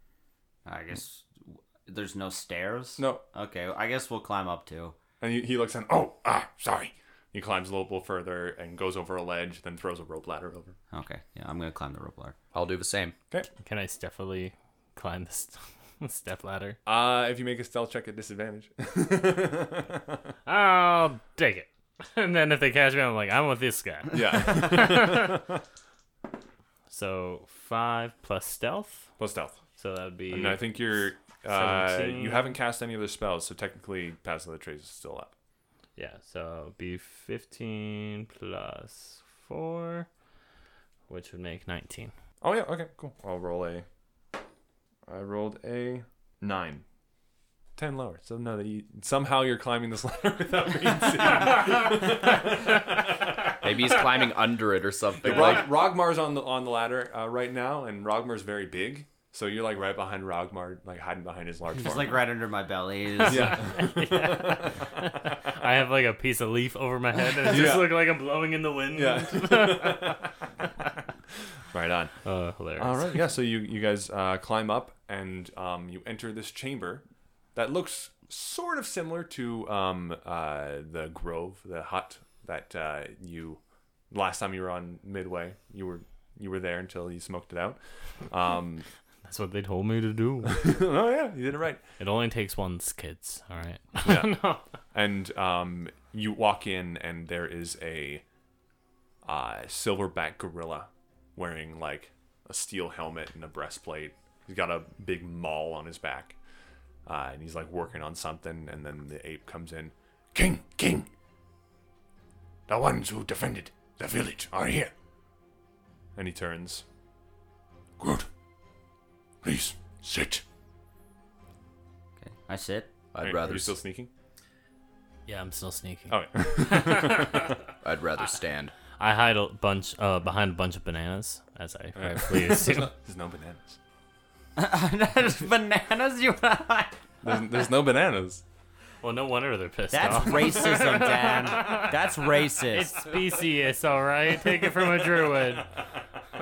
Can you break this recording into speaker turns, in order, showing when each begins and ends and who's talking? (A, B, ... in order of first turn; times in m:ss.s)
0:00.6-0:05.0 A
0:03.0-0:03.2 B
0:05.2-0:10.8 B
0:10.9-0:12.4 A
0:12.5-0:13.2 C
0:13.6-0:16.8 D
0:16.8-0:20.2 B
0:20.4-0:25.4 D
0:24.1-0:25.6 B
0:26.9-0:29.1 D
0:29.2-0:29.6 B
0:29.8-0:30.8 D
0:30.3-0:35.3 B
0:31.5-0:32.6 D
0:36.0-0:40.1 D
0:41.1-0:42.1 D
0:42.4-0:43.8 B
0:45.1-0:46.8 B
0:47.8-0:54.0 B
0:53.6-0:55.7 C
0:55.2-1:02.2 B
1:01.7-1:03.6 A
1:03.2-1:04.8 B
1:03.2-1:10.2 D
1:07.4-1:08.1 B
1:08.9-1:10.3 B
1:11.7-1:12.2 B
1:12.2-1:13.1 D
1:12.8-1:17.0 B
1:17.5-1:28.9 B
1:29.2-1:30.8 D
1:30.5-1:31.8 B
1:32.0-1:34.6 D
1:34.0-1:34.4 B
1:34.9-1:38.2 B
1:39.2-1:46.4 B
1:47.0-1:51.1 B
1:52.7-1:54.8 B
1:54.0-1:54.9 E
1:56.2-1:56.8 B
1:58.0-1:58.3 E
1:59.4-2:00.4 E
2:02.2-2:02.9 A
2:03.1-2:03.7 C
2:03.2-2:04.1 B
2:05.3-2:07.4 D
2:06.1-2:07.5 B
2:07.8-2:08.7 C
2:09.0-2:12.9 D
2:12.0-2:13.8 B
2:14.6-2:17.4 A
2:17.2-2:18.4 B
2:19.0-2:25.7 D
2:19.9-2:23.2 A